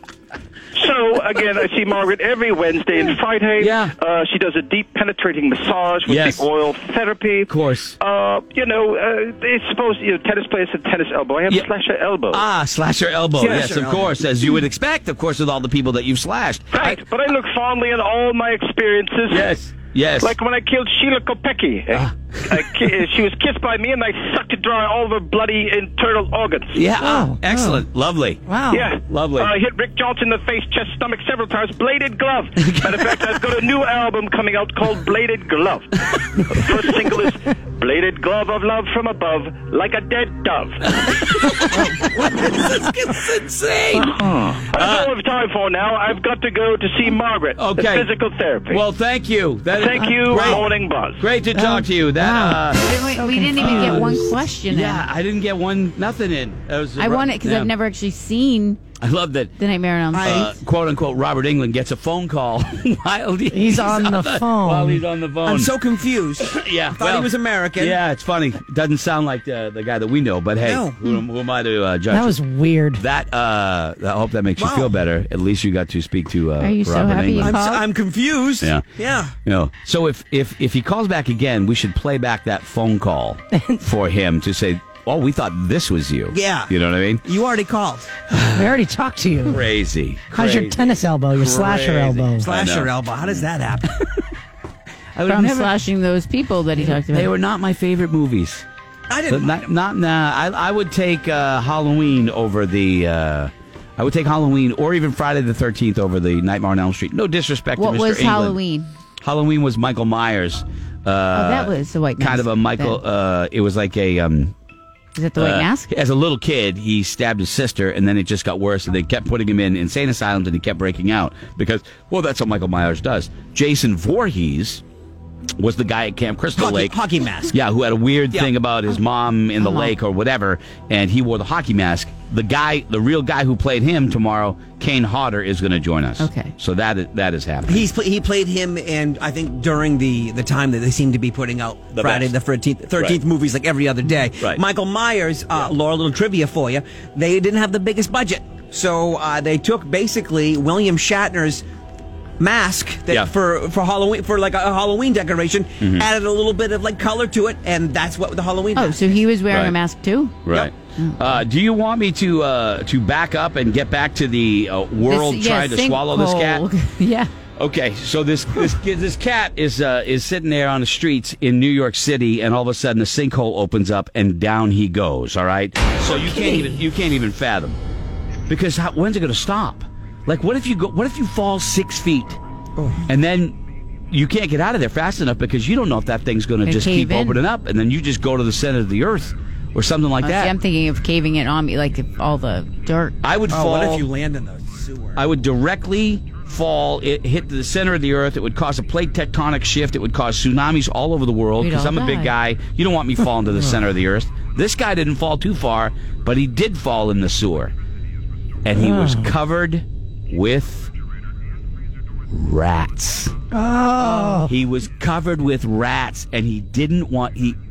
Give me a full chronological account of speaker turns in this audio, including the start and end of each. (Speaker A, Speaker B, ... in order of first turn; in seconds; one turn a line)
Speaker A: 0.7-12.4
Speaker B: 3.6-3.9
Speaker B: 6.1-6.5
Speaker B: 7.5-8.0
Speaker B: 12.3-17.0
Speaker C: 13.4-14.2
Speaker A: 16.7-19.5
Speaker B: 19.3-20.4
Speaker A: 20.2-26.8
Speaker B: 21.9-22.8
Speaker B: 26.7-28.5
Speaker D: 27.0-27.8
Speaker D: 28.5-28.9
Speaker A: 28.7-40.8
Speaker B: 29.1-29.5
Speaker B: 32.6-33.4
Speaker B: 40.9-44.2
Speaker A: 44.1-48.8
Speaker B: 44.7-45.1
Speaker B: 47.6-53.0
Speaker A: 49.7-51.2
Speaker D: 51.5-54.3
Speaker E: 52.8-55.1
Speaker B: 53.5-54.1
Speaker B: 54.7-57.7
Speaker E: 57.0-58.9
Speaker B: 59.0-59.6
Speaker E: 59.6-60.6
Speaker C: 60.1-60.5
Speaker B: 60.2-65.8
Speaker D: 63.5-65.1
Speaker C: 65.4-68.0
Speaker B: 66.4-77.6
Speaker C: 70.6-71.0
Speaker D: 72.1-73.0
Speaker C: 74.6-75.0
Speaker E: 76.6-77.8
Speaker C: 77.4-79.3
Speaker B: 79.4-87.2
Speaker D: 83.5-83.8
Speaker C: 86.3-88.2
Speaker D: 88.5-89.7
Speaker B: 89.5-93.5
Speaker D: 90.3-92.4
Speaker C: 92.4-93.9
Speaker B: 95.2-95.7
Speaker E: 95.3-97.4
Speaker B: 96.8-98.6
Speaker C: 99.1-99.5
Speaker B: 99.3-108.6
Speaker E: 107.8-108.9
Speaker B: 109.2-114.5
Speaker E: 111.3-113.0
Speaker E: 115.2-115.9
Speaker B: 115.4-124.8
Speaker B: 125.6-127.0
Speaker C: 126.6-127.6
Speaker B: 127.5-137.9
Speaker E: 129.6-129.9
Speaker E: 136.2-136.6
Speaker C: 137.6-151.7
Speaker B: 141.9-142.3
Speaker C: 152.4-159.2
Speaker E: 158.8-161.3
Speaker B: 159.5-159.8
Speaker B: 160.4-166.7
Speaker E: 165.0-167.3
Speaker B: 167.6-177.8
Speaker C: 176.1-176.5
Speaker B: 178.5-182.4
Speaker B: 183.1-183.6
Speaker B: 184.1-190.6
Speaker E: 186.7-187.4
Speaker E: 190.2-193.2
Speaker B: 193.2-194.1
Speaker C: 193.5-195.2
Speaker B: 195.2-207.7
Speaker E: 201.6-202.3
Speaker B: 208.7-210.9
Speaker D: 208.8-209.3
Speaker B: 212.3-213.3
Speaker D: 213.5-214.5
Speaker B: 214.0-217.6